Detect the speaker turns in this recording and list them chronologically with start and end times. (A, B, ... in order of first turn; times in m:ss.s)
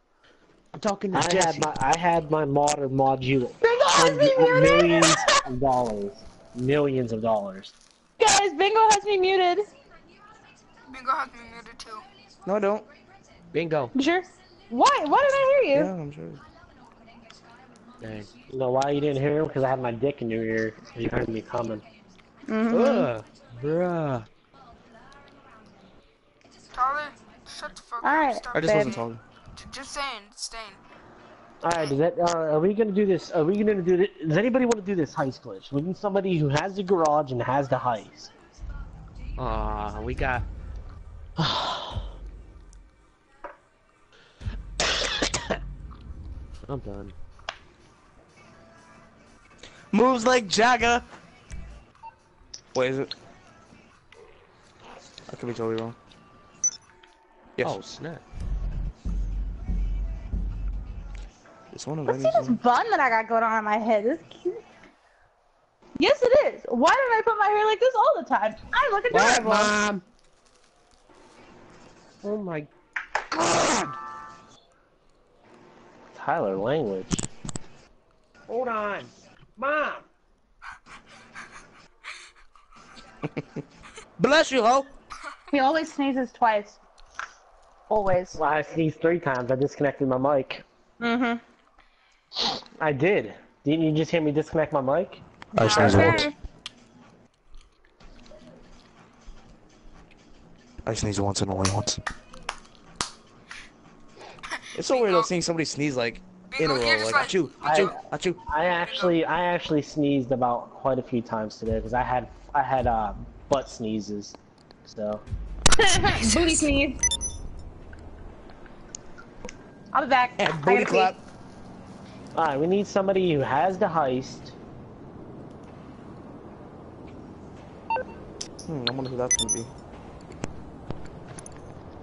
0:00.8-0:01.7 A
0:01.1-0:07.7 B
0:03.6-0:05.4 C
0:08.2-0:09.7 C
0:10.9-0:12.0 D
0:12.4-0:12.9 E
0:13.5-0:13.9 A
0:13.9-0:15.9 C
0:15.7-0:16.4 E
0:18.0-0:18.3 A
0:18.5-0:21.8 B
0:22.5-0:23.1 C
0:22.7-0:24.3 A
0:26.7-0:30.8 D
0:28.0-0:29.0 C
0:28.5-0:29.2 E
0:31.6-0:38.3 B
0:39.4-0:40.5 A
0:41.4-0:42.0 B
0:46.6-0:47.2 A
0:49.9-0:51.0 E
0:52.7-0:53.1 E
0:55.3-0:56.0 E
0:57.6-0:57.9 E
0:57.6-0:58.2 A
1:01.7-1:02.6 E
1:02.1-1:04.6 C
1:06.0-1:09.8 C
1:09.1-1:10.0 A
1:12.2-1:12.7 A
1:13.3-1:14.0 A
1:16.1-1:17.3 B
1:18.5-1:20.1 B
1:18.7-1:19.1 A
1:24.2-1:24.9 E
1:25.5-1:26.8 C
1:27.9-1:28.4 C
1:28.4-1:30.6 B
1:31.0-1:31.4 C
1:32.4-1:35.2 B
1:35.6-1:36.3 E
1:35.6-1:36.3 D
1:35.7-1:36.3 C
1:40.9-1:42.0 E
1:44.5-1:45.3 D
1:44.8-1:48.4 E
1:46.5-1:48.0 D
1:47.6-1:55.2 B
1:48.6-1:49.2 D
1:55.7-1:57.0 C
1:56.0-1:56.6 D
1:59.9-2:01.2 C
2:00.4-2:01.2 E
2:02.4-2:04.6 B
2:08.6-2:09.7 E